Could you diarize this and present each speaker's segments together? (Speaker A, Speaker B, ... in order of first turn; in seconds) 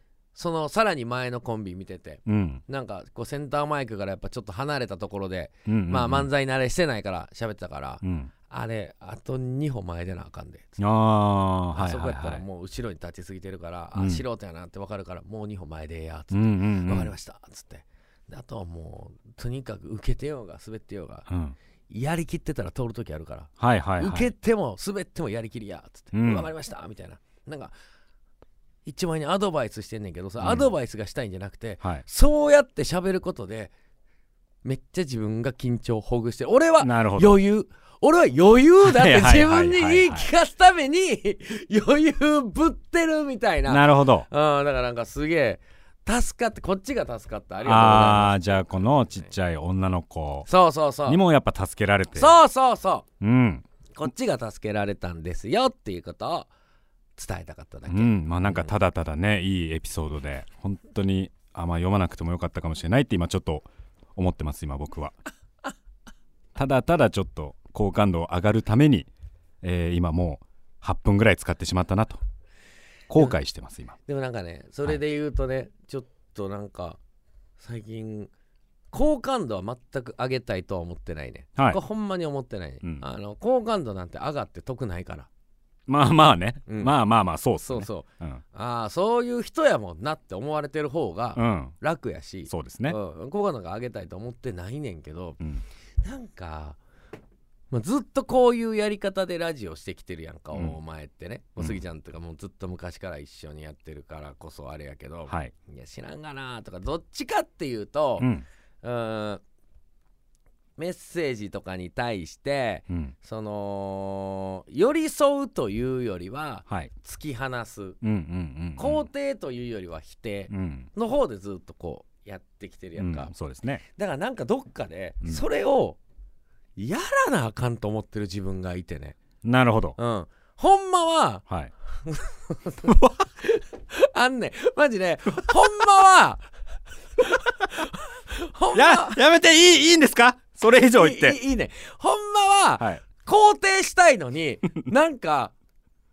Speaker A: 0.3-10.8, 11.7-21.3, 21.9-27.8, 28.9-33.7, 34.6-49.0, 50.5-51.2, 52.1-53.0, 54.0-56.5, 57.2-58.7, 74.1-77.0, 77.6-78.3, 78.9-85.3, 86.7-86.9, 87.7-95.4, 96.0-96.8, 97.7-108.3, 108.8-109.4, 110.8-118.0, 118.8-123.3, 123.9-126.0, 126.8-129.2, 130.0-131.4, 132.0-136.5, 137.2-139.2, 140.9-145.5
Speaker B: 2.3-2.6, 5.7-6.3, 8.0-8.3, 10.8-12.4, 13.9-14.2, 16.3-17.1, 21.3-21.6, 23.6-24.3, 26.1-26.5, 30.4-30.7, 36.8-37.4, 38.8-40.3, 43.7-44.3, 47.6-50.5, 51.1-52.4, 53.2-53.6, 57.9-65.2, 66.6-69.1, 69.6-72.2, 73.1-74.0, 85.9-88.4, 91.4-91.7, 92.5-93.0, 105.3-105.5, 108.2-108.5, 116.7-116.9, 118.0-119.1, 120.5-120.9, 123.0-123.8, 129.4-130.0, 138.7-141.4